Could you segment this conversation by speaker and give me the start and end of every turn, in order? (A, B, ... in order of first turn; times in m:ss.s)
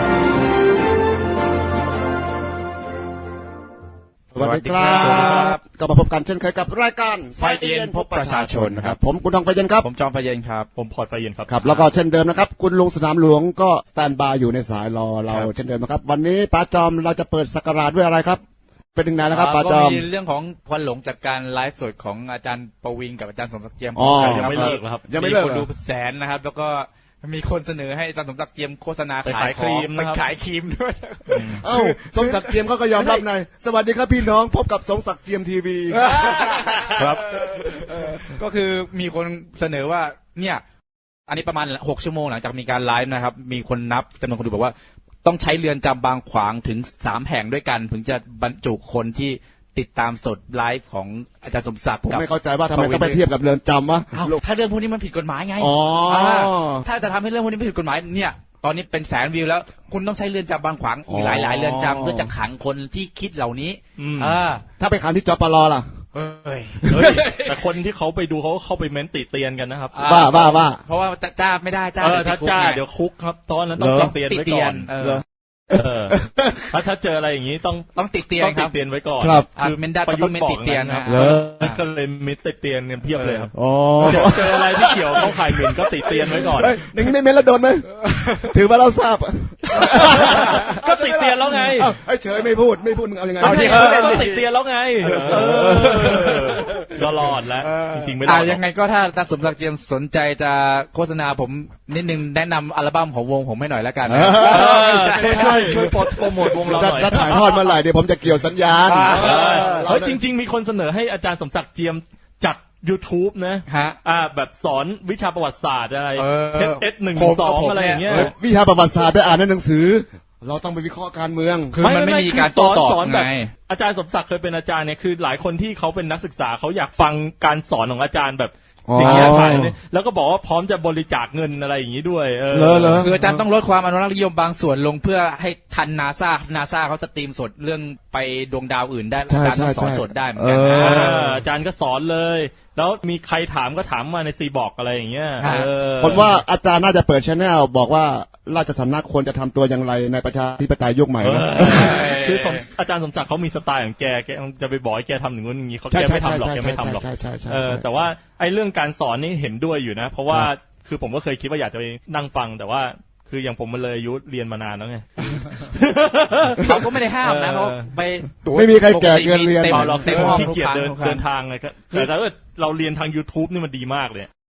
0:04.3-0:09.8 A
0:04.4-0:05.6 B
0:04.9-0:05.6 C
0:07.4-0:09.0 B
0:09.8-0:10.7 B
0:10.8-0:11.5 C
0:11.5-0:18.4 A
0:11.6-0:11.9 B
0:18.9-0:20.0 A
0:19.3-0:33.2 B
0:24.0-0:25.7 A
0:24.1-0:25.1 C
0:29.2-0:30.3 C
0:31.3-0:31.6 C
0:31.6-0:38.2 A
0:35.9-0:40.6 B
0:37.0-0:37.2 C
0:41.3-0:53.2 B
0:52.1-0:54.4 A
0:54.1-1:04.6 B
0:55.6-0:56.8 A
1:01.1-1:02.3 A
1:04.0-1:04.4 C
1:04.8-1:05.9 A
1:06.1-1:07.4 B
1:06.8-1:07.2 A
1:06.9-1:10.0 C
1:09.9-1:12.8 B
1:10.0-1:10.8 A
1:12.0-1:14.9 C
1:13.8-1:14.1 A
1:13.9-1:15.2 B
1:15.7-1:26.7 C
1:16.1-1:16.6 A
1:17.9-1:18.7 B
1:19.2-1:19.5 A
1:19.5-1:21.8 B
1:21.0-1:21.6 A
1:23.1-1:23.5 B
1:23.5-1:34.3 A
1:28.1-1:28.5 B
1:29.8-1:30.6 B
1:29.9-1:31.9 C
1:33.4-1:34.4 B
1:33.4-1:38.6 C
1:35.0-1:36.3 B
1:35.0-1:37.0 A
1:37.6-1:46.0 B
1:44.0-1:50.2 A
1:44.4-1:47.3 C
1:47.0-1:47.7 B
1:48.8-1:49.8 B
1:49.0-1:58.3 C
1:53.7-1:54.0 B
1:56.2-1:58.3 B
1:58.1-2:01.8 A
2:01.7-2:03.5 B
2:01.8-2:13.1 C
2:08.9-2:09.7 A
2:09.0-2:09.6 B
2:12.5-2:13.4 A
2:13.0-2:21.2 B
2:19.3-2:21.4 A
2:20.8-2:26.4 C
2:25.4-2:25.7 B
2:26.0-2:32.0 A
2:31.2-2:47.9 C
2:31.6-2:32.6 B
2:35.9-2:37.8 A
2:46.6-2:51.2 B
2:48.5-2:50.4 A
2:49.7-2:54.3 C